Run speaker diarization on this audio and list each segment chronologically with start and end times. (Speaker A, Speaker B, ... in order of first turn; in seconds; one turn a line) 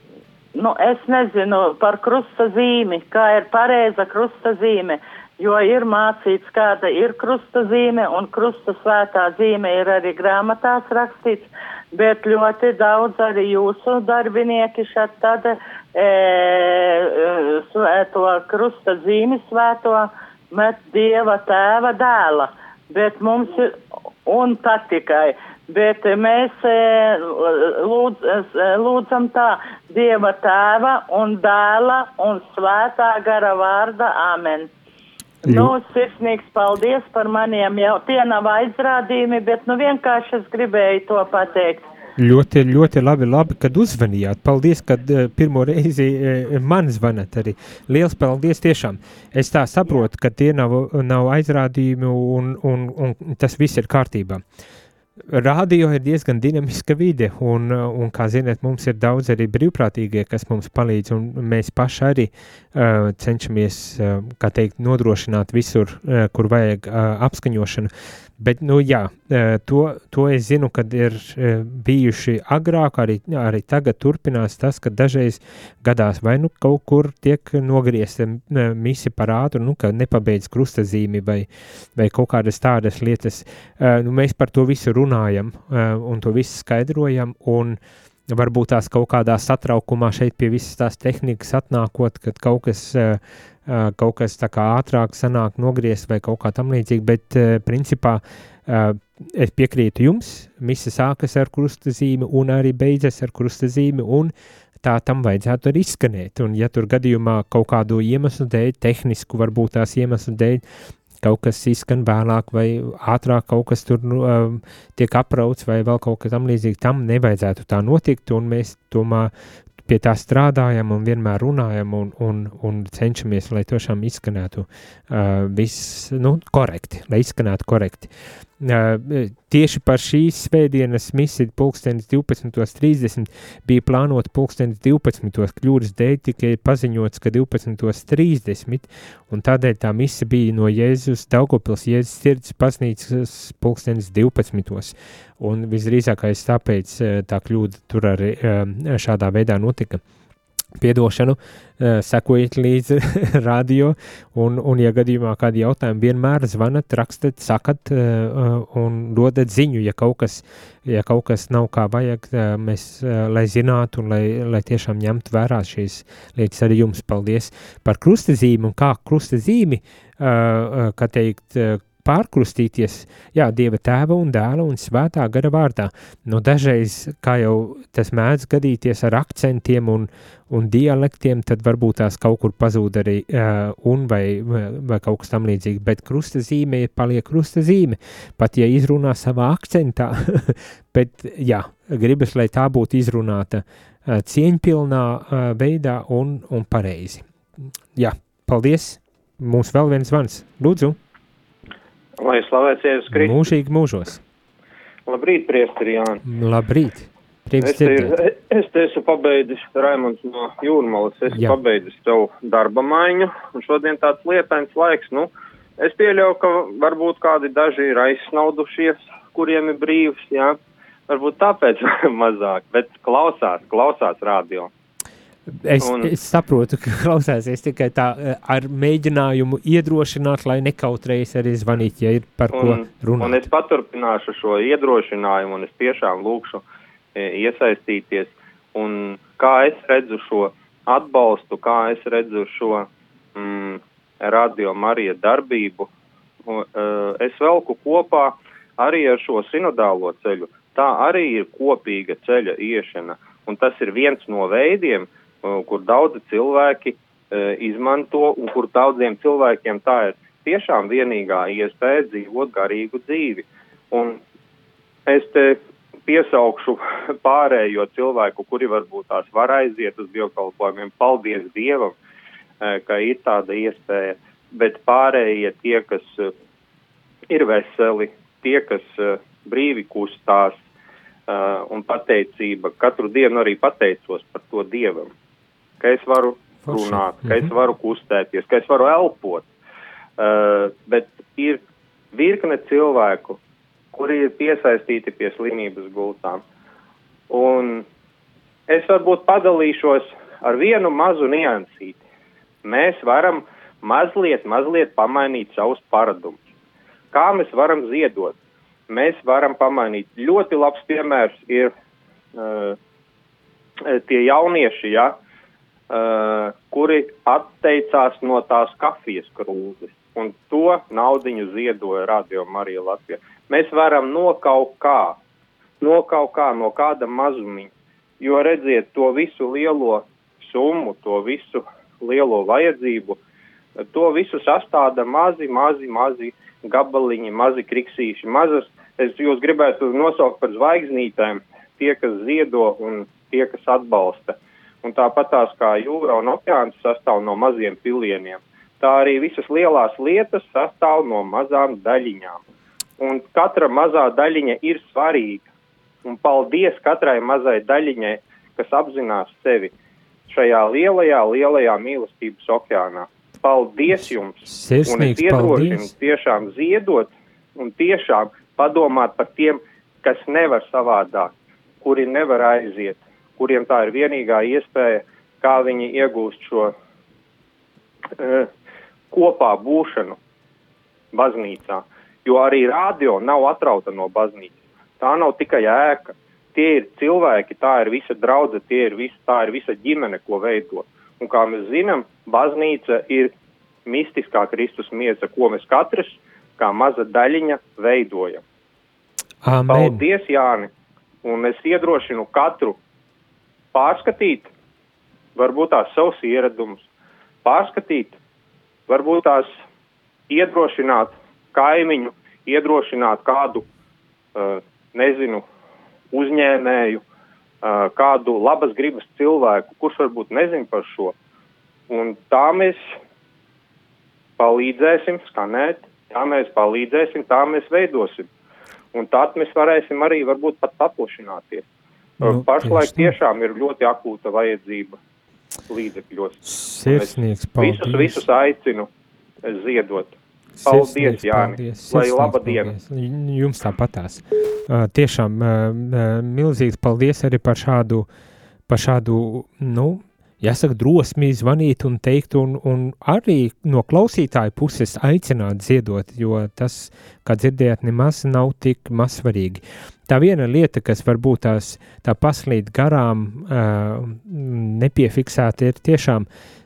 Speaker A: 0.5-34.7
Speaker A: 35.4-41.8
Speaker B: 35.4-35.7
Speaker B: 42.2-54.4
Speaker B: 55.3-110.6
Speaker B: 111.2-119.3
Speaker B: 119.8-150.0
Speaker B: 150.8-197.2
Speaker B: 197.9-201.0
Speaker C: 202.2-203.3
Speaker B: 203.1-204.2
Speaker C: 205.1-206.2
Speaker B: 206.2-208.2
Speaker C: 207.6-220.6
Speaker B: 211.3-211.6
Speaker C: 221.1-224.7
Speaker B: 225.5-233.4
Speaker C: 225.8-226.1
Speaker C: 232.5-236.6
Speaker C: 237.1-245.9
Speaker C: 246.4-264.2
Speaker C: 265.1-271.9
Speaker C: 272.6-276.3
Speaker C: 277.3-280.6
Speaker C: 281.3-285.1
Speaker C: 285.8-289.5
Speaker B: 286.6-287.5
Speaker C: 290.2-291.6
Speaker C: 292.1-293.4
Speaker C: 293.9-296.4
Speaker C: 297.3-297.8
Speaker C: 298.7-302.0
Speaker C: 302.6-306.4
Speaker C: 307.1-308.4
Speaker C: 308.9-311.7
Speaker C: 312.3-312.8
Speaker C: 313.9-315.1
Speaker C: 315.9-325.2
Speaker C: 325.8-333.2
Speaker C: 333.9-352.4
Speaker C: 353.0-355.5
Speaker C: 356.0-359.7
Speaker C: 360.3-376.7
Speaker B: 364.4-365.9
Speaker C: 378.2-378.5
Speaker C: 379.1-380.2
Speaker C: 381.1-393.3
Speaker C: 393.9-398.4
Speaker B: 399.4-400.0
Speaker C: 399.7-400.7
Speaker C: 401.2-402.8
Speaker C: 403.7-404.5
Speaker C: 405.3-406.9
Speaker C: 407.4-408.1
Speaker C: 408.9-409.6
Speaker C: 410.3-413.6
Speaker C: 414.3-415.4
Speaker C: 416.1-417.0
Speaker C: 417.6-421.1
Speaker C: 421.9-422.9
Speaker C: 424.4-428.2
Speaker C: 428.9-431.6
Speaker C: 432.2-434.9
Speaker B: 432.2-433.1
Speaker C: 435.7-438.9
Speaker B: 436.4-438.2
Speaker C: 439.4-440.1
Speaker B: 440.6-448.1
Speaker C: 440.6-442.7
Speaker B: 448.7-466.2